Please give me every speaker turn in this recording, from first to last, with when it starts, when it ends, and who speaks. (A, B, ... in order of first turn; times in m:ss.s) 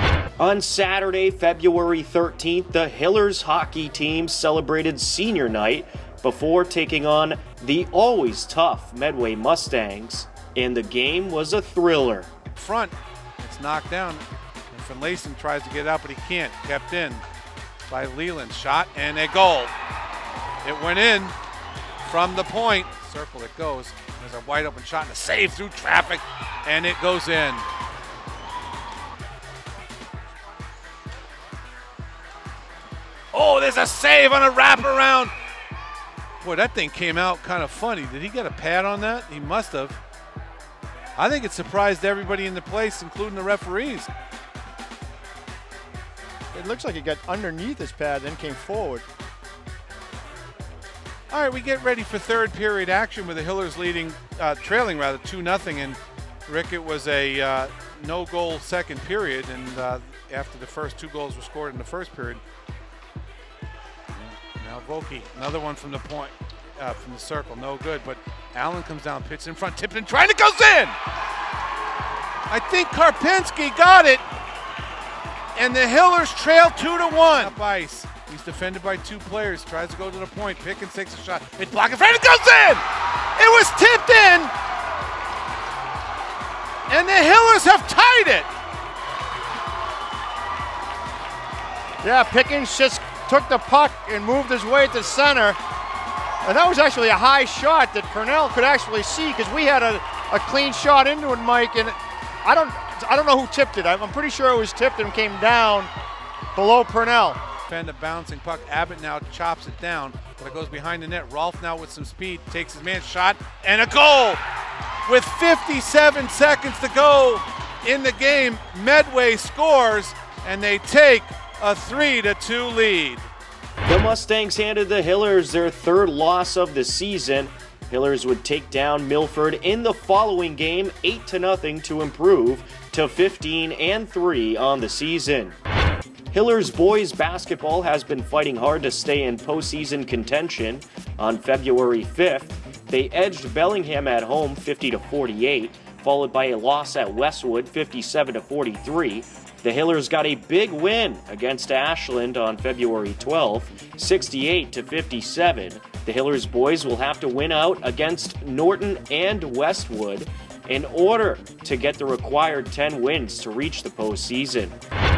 0:00.4-0:12.3 A
0:12.6-0:17.2 B
0:17.9-0:19.7 B
0:20.6-0:21.4 B
0:22.0-0:27.6 B
0:33.3-0:35.3 B
0:36.4-0:40.0 B
0:41.2-0:44.1 B
0:46.5-0:49.0 C
0:51.3-1:02.4 B
1:04.1-1:11.0 B
1:12.5-1:14.2 B
1:15.5-1:22.8 B
1:23.4-1:24.5 B
1:26.9-1:28.5 B
1:32.0-1:35.6 C
1:36.4-1:45.9 C
1:46.5-1:47.4 C
1:47.7-1:54.4 B
1:55.1-2:03.3 B
2:03.8-2:15.6 A
2:16.3-2:44.8 A